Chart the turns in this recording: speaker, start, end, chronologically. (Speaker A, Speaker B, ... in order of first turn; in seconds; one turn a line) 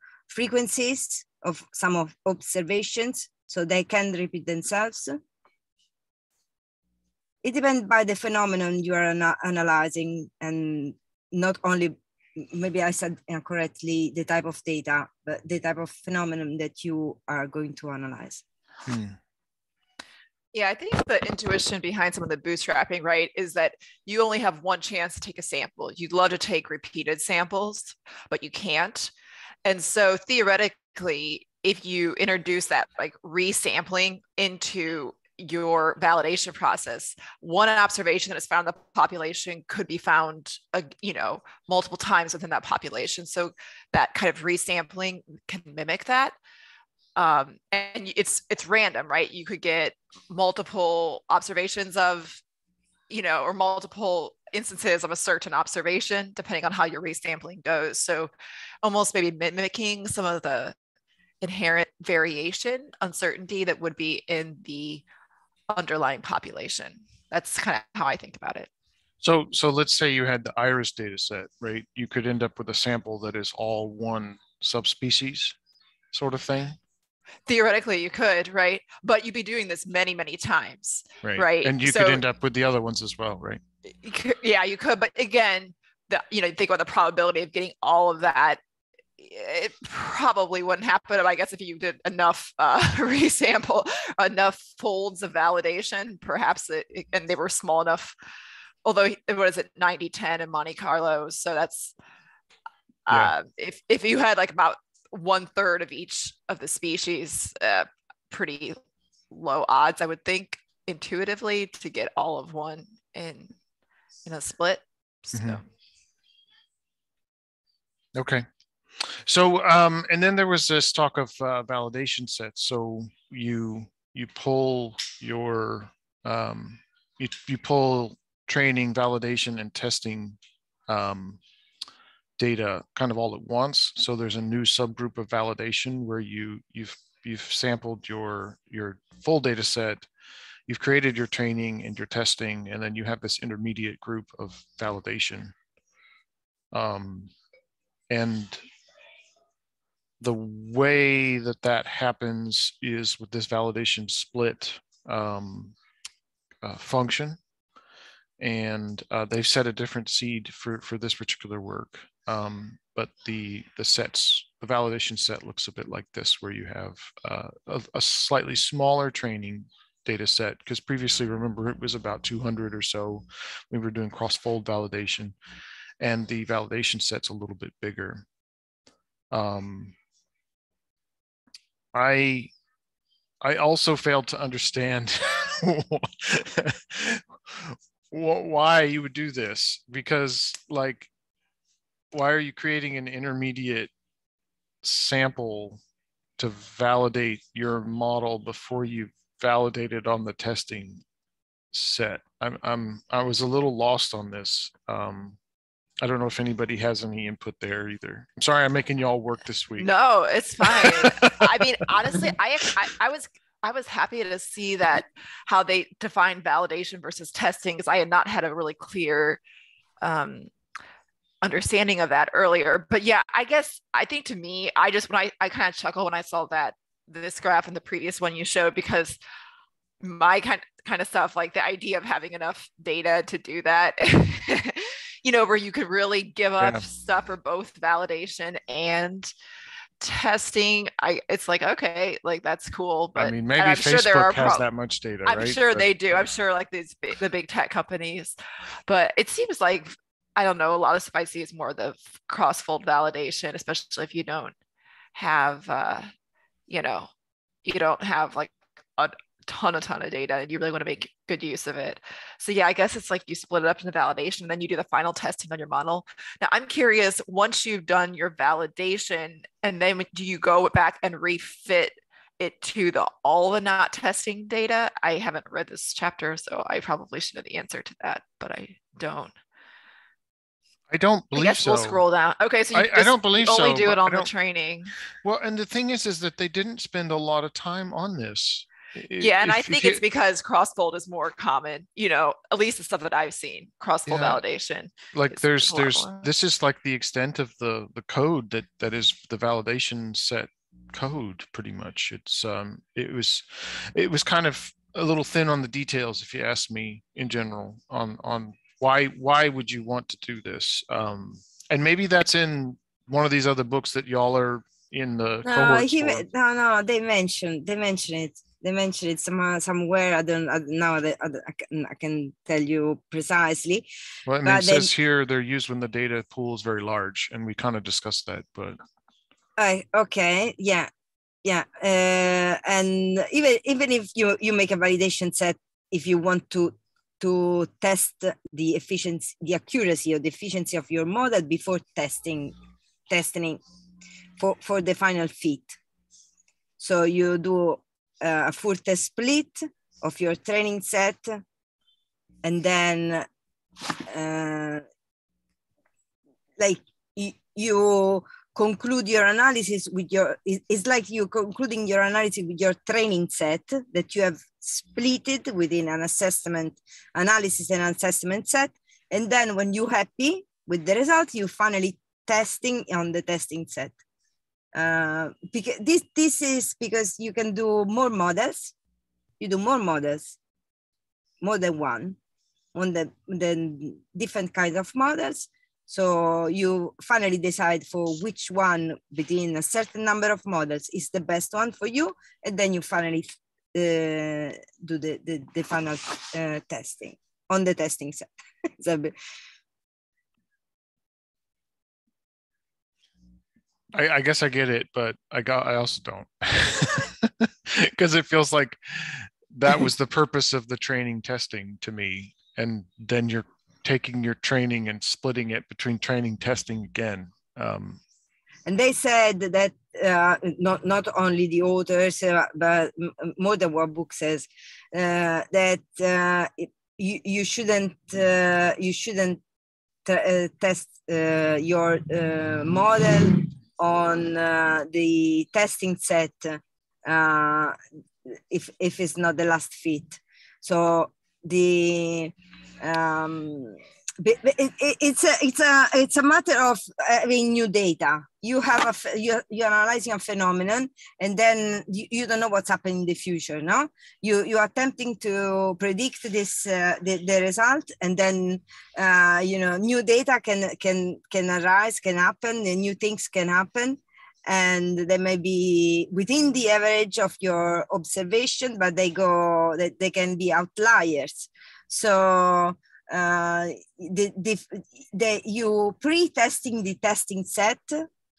Speaker A: 0.3-5.2
Speaker A: 7.4-18.4
Speaker B: 18.9-19.2
Speaker C: 20.5-29.1
Speaker C: 29.6-46.4
Speaker C: 47.2-52.4
Speaker C: 53.1-58.3
Speaker C: 58.8-60.8
Speaker C: 61.4-65.1
Speaker C: 65.7-68.7
Speaker B: 69.2-75.6
Speaker B: 76.1-76.8
Speaker C: 77.5-82.2
Speaker B: 81.2-83.6
Speaker C: 84.0-88.6
Speaker C: 89.2-98.2
Speaker C: 98.8-101.9
Speaker C: 103.1-108.8
Speaker C: 109.3-113.5
Speaker C: 114.2-115.6
Speaker B: 115.3-115.6
Speaker B: 118.2-118.5
Speaker B: 119.0-130.4
Speaker B: 130.9-131.4
Speaker B: 132.4-140.1
Speaker B: 140.7-145.6
Speaker B: 146.7-147.3
Speaker B: 148.1-148.6
Speaker B: 150.2-155.8
Speaker B: 156.6-157.4
Speaker B: 158.4-175.4
Speaker B: 176.0-178.2
Speaker B: 179.3-179.9
Speaker B: 181.9-182.5
Speaker B: 183.4-191.1
Speaker B: 192.1-193.9
Speaker B: 194.8-195.8
Speaker B: 196.4-201.0
Speaker B: 201.7-205.4
Speaker B: 206.0-209.9
Speaker C: 209.8-219.4
Speaker B: 210.6-211.6
Speaker C: 220.0-220.5
Speaker C: 221.4-229.2
Speaker C: 230.0-239.3
Speaker B: 236.6-236.9
Speaker C: 240.0-244.7
Speaker B: 243.2-246.3
Speaker C: 245.3-254.5
Speaker C: 255.2-256.1
Speaker C: 256.7-257.1
Speaker C: 257.6-279.3
Speaker B: 280.9-282.0
Speaker C: 281.3-284.9
Speaker B: 282.7-284.3
Speaker B: 285.2-290.0
Speaker C: 289.2-296.3
Speaker B: 294.1-294.4
Speaker B: 295.1-316.2
Speaker A: 315.4-323.9
Speaker B: 324.3-328.8
Speaker A: 324.4-324.9
Speaker A: 329.6-330.9
Speaker A: 331.4-342.6
Speaker A: 343.1-343.6
Speaker A: 344.4-345.8
Speaker A: 346.8-351.4
Speaker A: 352.4-353.3
Speaker A: 354.1-354.8
Speaker A: 356.6-373.9
Speaker A: 374.8-378.7
Speaker A: 379.4-380.4
Speaker A: 381.4-382.2
Speaker A: 382.8-399.1
Speaker B: 403.9-418.0
Speaker A: 418.7-429.4
Speaker A: 430.1-437.8
Speaker A: 438.5-478.1